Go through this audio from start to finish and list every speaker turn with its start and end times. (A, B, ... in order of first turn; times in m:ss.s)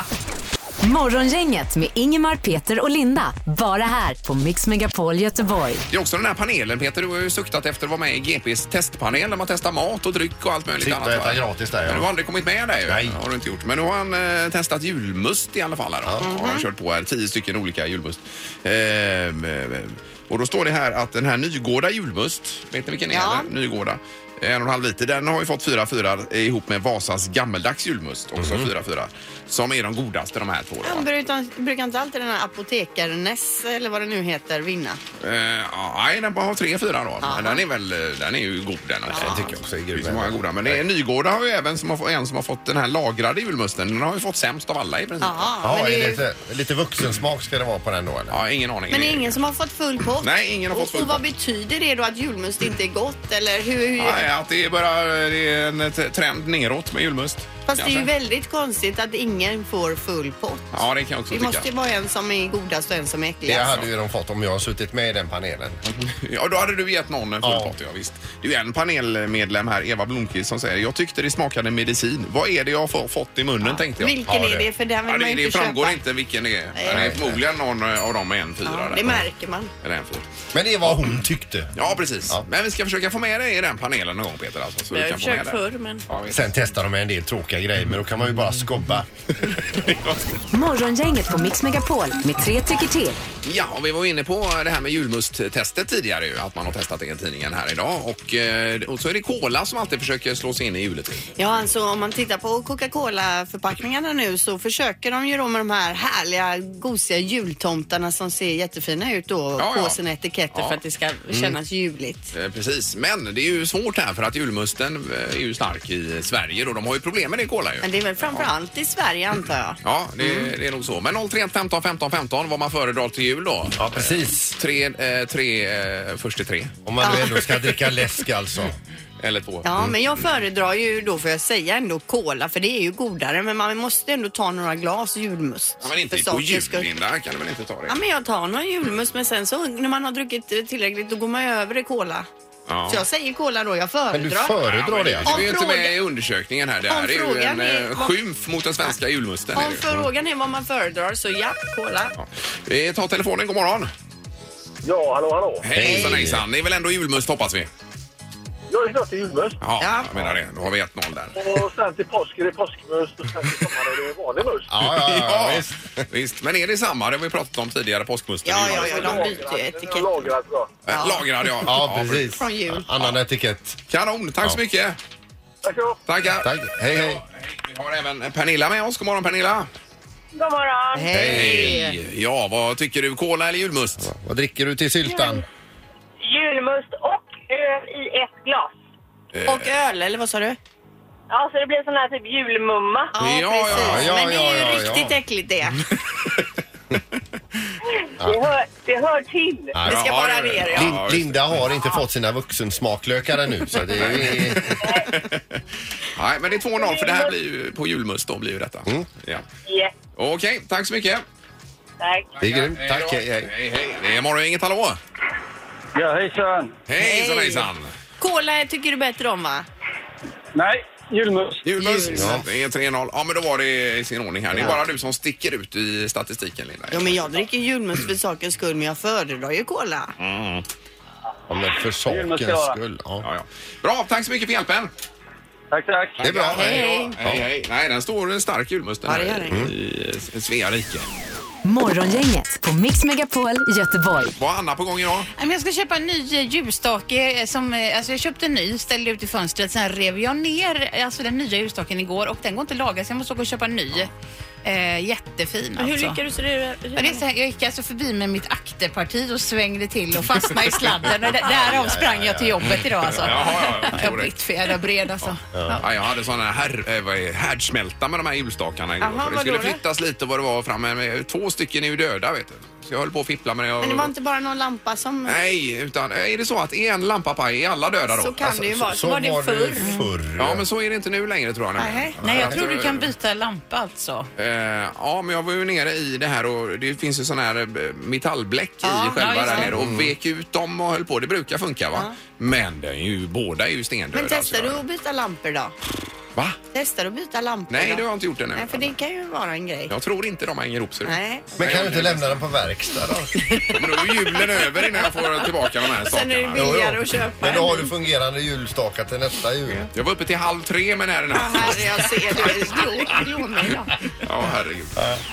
0:00.8-0:05.8 A
0:05.9-0:31.1 B
0:10.8-0:12.1 C
0:12.8-0:13.2 C
0:16.2-0:16.6 D
0:23.1-0:23.5 D
0:28.4-0:28.7 C
0:30.8-0:35.0 D
0:35.2-0:45.5 B
0:37.2-0:37.6 D
0:39.1-0:39.5 D
0:39.2-0:40.8 C
0:45.2-0:46.2 D
0:45.6-0:48.4 C
0:48.3-0:49.4 B
0:48.9-0:54.2 D
0:50.2-0:51.2 B
0:54.0-0:58.1 B
0:57.7-1:03.8 D
1:00.7-1:01.7 B
1:03.4-1:05.8 C
1:05.9-1:14.2 B
1:07.4-1:07.7 C
1:13.6-1:16.0 D
1:14.3-1:14.7 C
1:15.0-1:19.2 B
1:16.7-1:17.1 D
1:16.9-1:17.4 C
1:18.6-1:19.7 D
1:19.8-1:20.2 B
1:20.5-1:21.7 C
1:20.8-1:21.2 B
1:21.7-1:26.5 B
1:24.9-1:26.0 D
1:26.3-1:29.1 C
1:29.6-1:30.4 B
1:30.5-1:33.2 A
1:33.4-1:41.3 B
1:41.4-1:52.3 D
1:49.6-1:50.0 B
1:50.5-1:50.8 B
1:52.3-1:58.5 B
1:57.8-2:00.5 D
1:59.8-2:06.7 B
2:03.8-2:04.5 C
2:06.8-2:08.8 C
2:07.0-2:07.3 D
2:09.2-2:09.9 B
2:09.6-2:16.9 D
2:15.8-2:17.9 B
2:17.9-2:22.3 D
2:22.7-2:23.0 B
2:22.9-2:24.6 D
2:24.1-2:25.5 C
2:24.6-2:29.8 B
2:25.2-2:25.9 D
2:26.9-2:28.1 D
2:29.5-2:32.1 D
2:32.2-2:33.9 B
2:34.8-2:35.6 E
2:35.6-2:37.7 B
2:35.7-2:36.4 C
2:38.7-2:39.6 E
2:39.6-2:41.5 B
2:39.8-2:40.1 D
2:41.3-2:44.7 E
2:44.7-2:46.0 C
2:44.8-2:49.4 B
2:48.4-2:50.3 D
2:48.6-2:50.7 E
2:50.8-2:52.4 B
2:50.9-2:51.3 D
2:51.6-2:53.8 C
2:52.4-2:52.8 D
2:53.9-2:55.0 B
2:55.6-2:56.0 E
2:56.1-2:59.7 B
2:56.4-2:57.2 C
3:00.4-3:01.1 F
3:00.9-3:02.0 D
3:01.1-3:01.7 C
3:01.2-3:04.1 B
3:04.0-3:05.4 C
3:05.0-3:05.4 F
3:06.2-3:08.7 F
3:09.3-3:09.7 B
3:09.4-3:10.6 D
3:11.3-3:13.1 F
3:13.1-3:15.8 D
3:13.2-3:14.1 B
3:13.7-3:15.2 C
3:18.0-3:19.7 F
3:19.7-3:20.1 C
3:19.8-3:20.9 D
3:19.8-3:21.6 B
3:20.7-3:24.9 C
3:23.9-3:25.6 B
3:26.1-3:29.4 B
3:26.8-3:27.3 F
3:29.6-3:29.9 F
3:30.2-3:31.2 B
3:32.0-3:32.3 F
3:32.4-3:33.5 C
3:32.4-3:35.0 B
3:36.9-3:37.9 B
3:37.0-3:37.7 D
3:38.2-3:39.7 D
3:41.6-3:47.3 B
3:41.8-3:42.4 D
3:42.1-3:42.4 C
3:44.5-3:44.8 C
3:46.9-3:50.1 D
3:50.2-3:50.6 B
3:51.5-3:53.3 C
3:52.1-3:52.6 E
3:53.2-3:54.9 B
3:55.8-3:56.0 E
3:56.2-3:57.4 C
3:56.2-4:01.1 B
3:56.3-3:57.1 D
3:59.1-3:59.6 D
4:01.6-4:04.3 A
4:04.4-4:05.3 B
4:05.4-4:14.1 G
4:14.6-4:16.2 G
4:15.8-4:17.2 D
4:17.0-4:25.8 G
4:21.4-4:23.3 C
4:23.2-4:24.3 B
4:25.5-4:25.8 C
4:25.8-4:34.1 B
4:29.0-4:29.8 D
4:33.8-4:35.4 D
4:35.2-4:38.5 B
4:38.1-4:39.9 D
4:38.4-4:40.6 C
4:40.4-4:43.1 B
4:41.8-4:42.1 D
4:42.2-4:44.3 G
4:42.2-4:42.6 C
4:44.4-4:54.8 B
4:48.8-4:49.7 D
4:49.2-4:49.7 G
4:49.7-4:50.1 C
4:54.1-4:55.7 D
4:56.7-4:58.0 D
4:57.7-4:58.9 B
4:58.5-4:59.9 D
4:59.9-5:02.4 B
5:01.0-5:01.5 D
5:01.6-5:03.3 C
5:03.4-5:07.9 D
5:03.7-5:06.8 B
5:06.5-5:09.9 C
5:09.9-5:12.5 B
5:11.3-5:14.0 D
5:14.2-5:14.9 B